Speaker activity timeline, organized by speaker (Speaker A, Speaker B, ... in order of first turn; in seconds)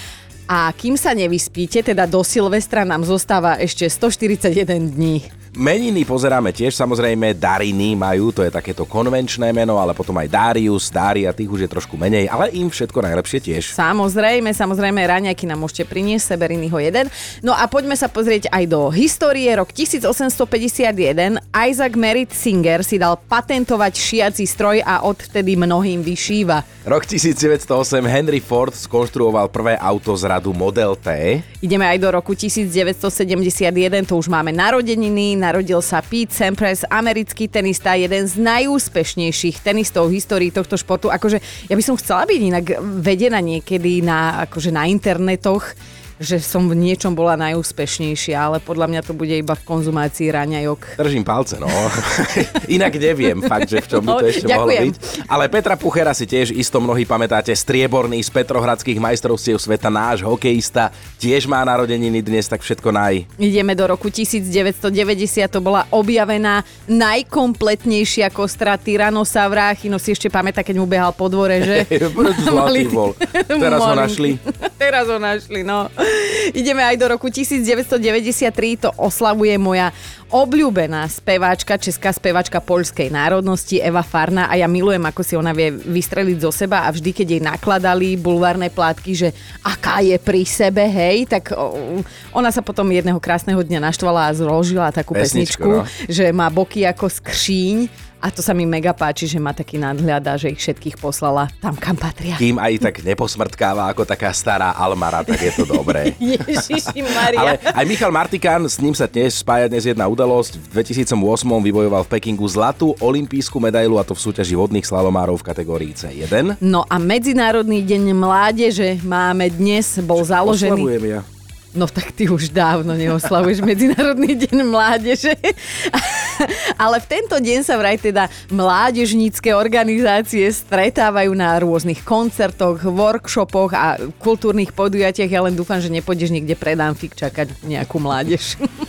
Speaker A: 0.5-5.3, 13.7-26.6, 31.6-51.0, 54.0-55.0, 63.4-102.4, 105.5-107.7, 116.6-120.9, 121.7-138.6
Speaker B: 5.5-13.7, 26.9-31.4, 51.0-63.3, 71.6-74.4, 95.1-95.9, 102.4-106.2, 107.3-116.6, 120.4-121.2